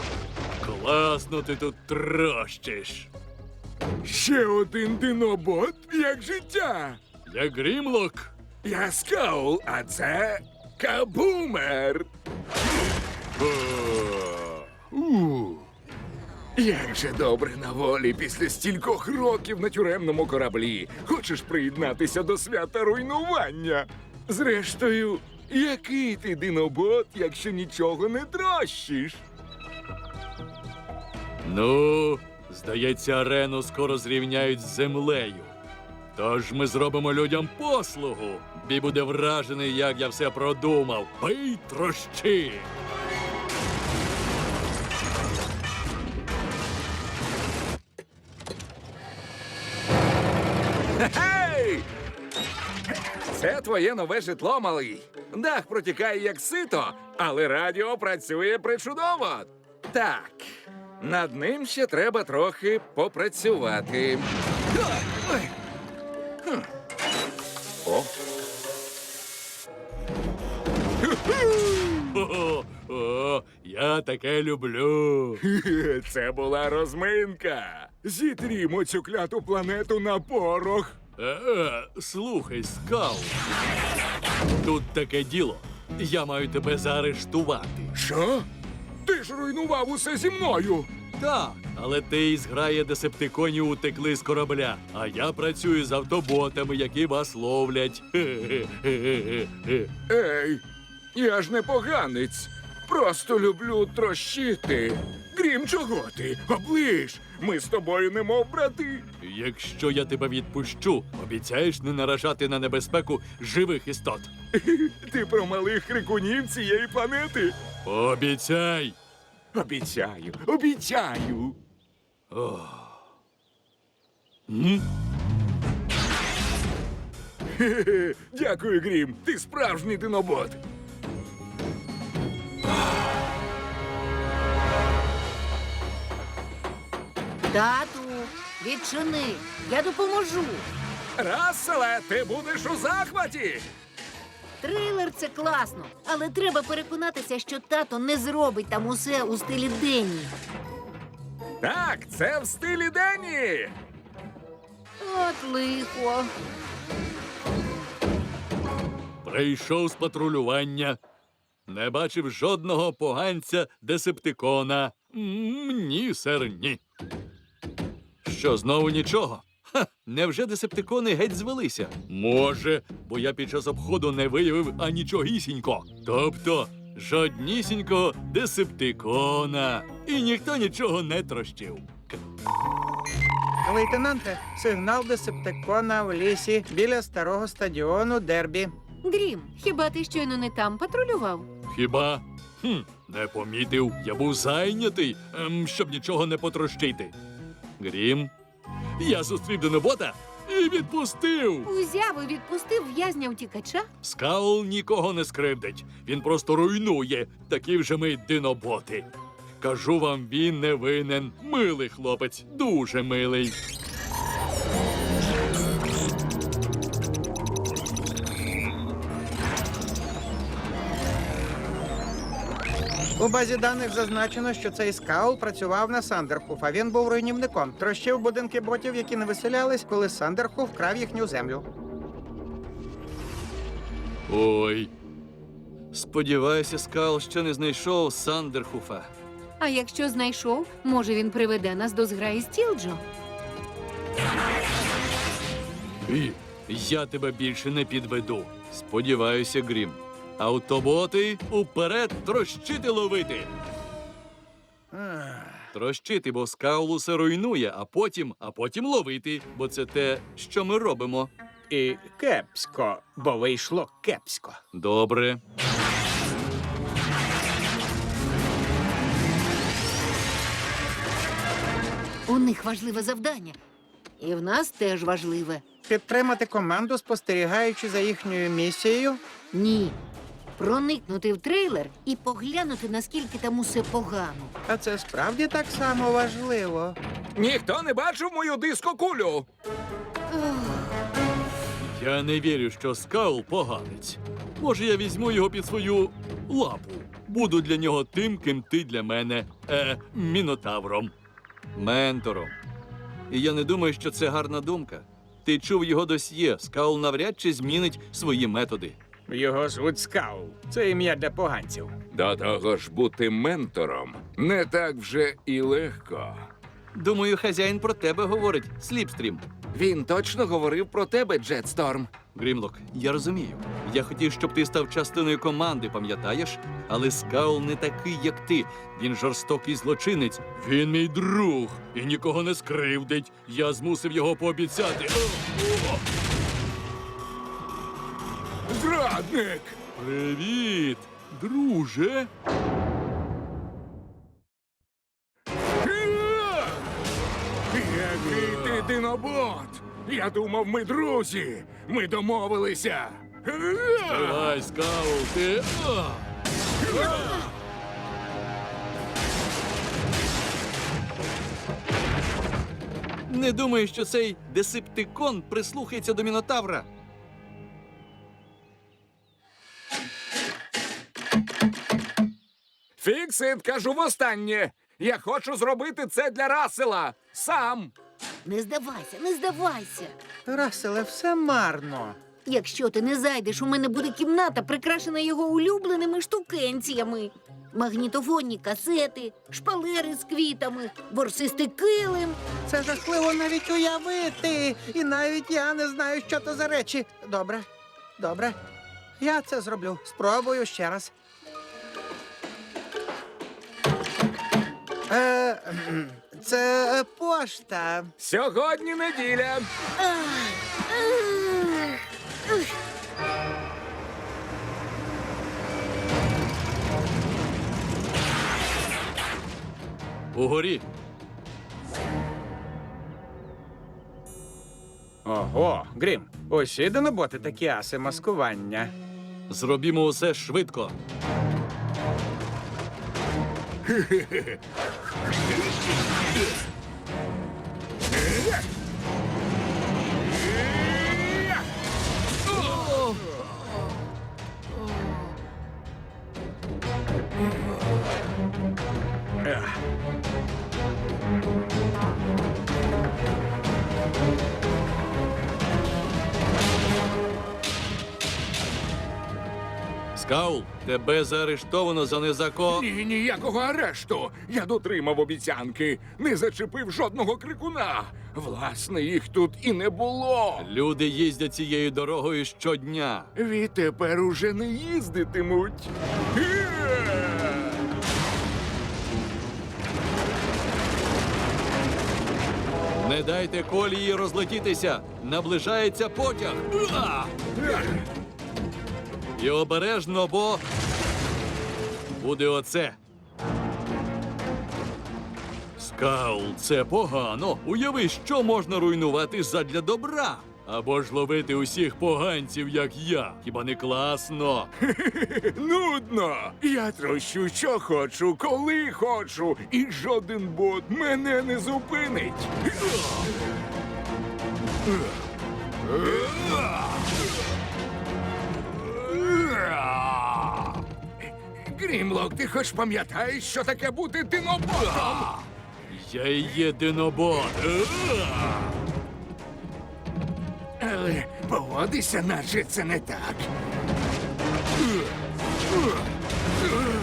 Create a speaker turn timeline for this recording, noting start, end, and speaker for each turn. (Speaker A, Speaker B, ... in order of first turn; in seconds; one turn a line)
Speaker A: 0.6-3.1
Speaker B: 4.0-7.0
Speaker A: 7.3-8.3
Speaker B: 8.6-12.1
Speaker B: 14.1-14.6
Speaker A: 14.9-15.7
Speaker B: 16.6-29.2
Speaker A: 31.4-35.5
Speaker A: 36.1-42.7
Speaker B: 51.0-51.9
Speaker B: 53.2-64.3
Speaker A: 65.1-65.5
Speaker B: 67.8-68.1
Speaker B: 71.1-72.0
Speaker A: 72.1-75.4
Speaker B: 75.4-81.0
Speaker A: 81.2-83.4
Speaker A: 84.6-87.9
Speaker B: 88.0-88.5
Speaker B: 89.0-90.9
Speaker A: 91.2-99.9
Speaker B: 100.1-100.6
Speaker B: 101.1-109.1
Speaker A: 109.2-114.3
Speaker B: 114.5-117.6
Speaker A: 117.8-119.0
Speaker B: 119.5-121.6
Speaker A: 122.3-123.0
Speaker A: 124.5-124.8
Speaker B: 127.6-130.6
Speaker C: 137.5-140.7
Speaker B: 141.2-143.7
Speaker C: 144.6-150.3
Speaker B: 151.6-153.7
Speaker C: 155.0-156.3
Speaker A: 159.2-161.0
Speaker A: 161.7-166.8
Speaker A: 168.2-182.2
Speaker D: 183.6-188.7
Speaker C: 189.0-191.5
Speaker A: 191.7-197.1
Speaker A: 197.8-198.3
Speaker A: 199.0-201.7
Speaker C: 201.7-203.9
Speaker A: 204.0-209.1
Speaker A: 209.6-213.6
Speaker D: 223.2-231.7
Speaker A: 234.3-234.9
Speaker A: 235.9-239.1
Speaker C: 239.6-243.0
Speaker A: 246.1-253.5
Speaker D: 254.9-255.7
Speaker A: 255.7-261.3
Speaker D: 261.7-264.6
Speaker A: 264.7-265.4
Speaker C: 272.3-273.6
Speaker C: 274.2-275.6
Speaker D: 275.9-279.2
Speaker C: 279.5-280.0
Speaker C: 280.6-284.5
Speaker D: 284.7-287.0
Speaker B: 287.4-289.5
Speaker C: 290.3-290.9
Speaker A: 291.9-301.1
Speaker A: 301.8-302.6
Speaker A: 303.3-309.0
Speaker D: 309.3-311.9
Speaker B: 312.1-316.5
Speaker A: 316.9-319.4
Speaker B: 319.7-322.1
Speaker A: 322.3-336.0
Speaker B: 338.7-339.8
Speaker A: 340.0-342.3
Speaker B: 345.8-346.9
Speaker B: 347.7-354.6
Speaker A: 348.2-348.9
Speaker A: 354.1-356.3
Speaker A: 356.9-357.3
Speaker B: 356.9-357.5
Speaker A: 363.3-366.9
Speaker B: 373.0-377.9
Speaker C: 378.4-380.1
Speaker D: 380.5-382.2
Speaker C: 382.4-392.4
Speaker D: 392.7-397.7
Speaker D: 398.2-398.6
Speaker D: 399.2-401.1
Speaker D: 405.1-408.1
Speaker B: 408.2-409.7
Speaker C: 410.0-412.7
Speaker A: 420.3-420.9
Speaker D: 425.2-428.9
Speaker A: 429.5-431.0
Speaker B: 434.0-434.5
Speaker A: 442.5-443.4
Speaker D: 449.4-449.8
Speaker A: 460.2-462.9
Speaker B: 462.7-470.7
Speaker A: 470.6-473.3
Speaker B: 473.4-477.8
Speaker A: 483.0-487.6
Speaker A: 489.4-490.6
Speaker A: 492.2-493.0
Speaker A: 495.8-504.7
Speaker B: 504.9-512.7
Speaker B: 519.1-519.9
Speaker B: 521.6-525.5
Speaker A: 525.9-528.8
Speaker B: 530.8-533.5